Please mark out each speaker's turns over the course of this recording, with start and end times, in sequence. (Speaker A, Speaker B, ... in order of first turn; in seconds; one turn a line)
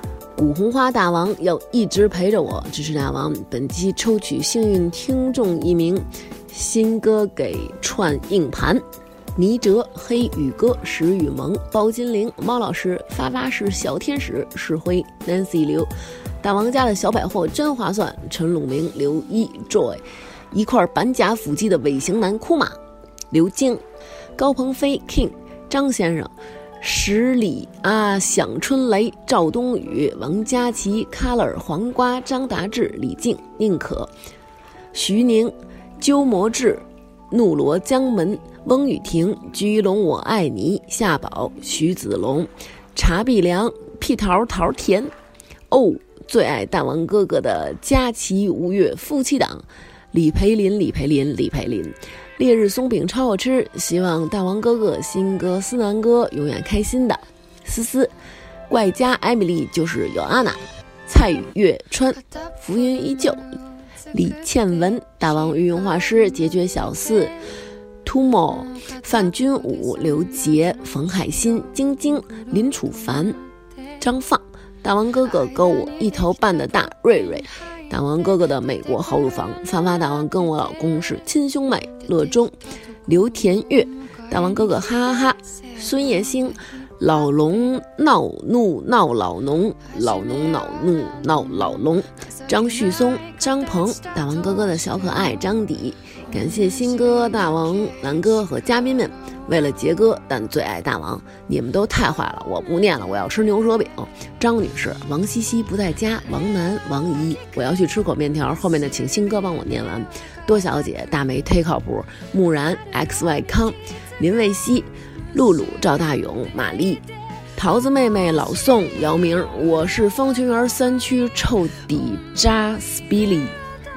Speaker A: 0.4-8.8
Speaker A: 9.3-22.8
Speaker A: 23.3-23.8
Speaker A: 24.4-34.1
Speaker A: 34.9-45.1
Speaker A: 45.7-58.1
Speaker A: 58.7-63.5
Speaker A: 64.1-67.3
Speaker A: 68.0-73.4
Speaker A: 74.0-82.5
Speaker A: 83.0-117.0
Speaker A: 117.5-123.5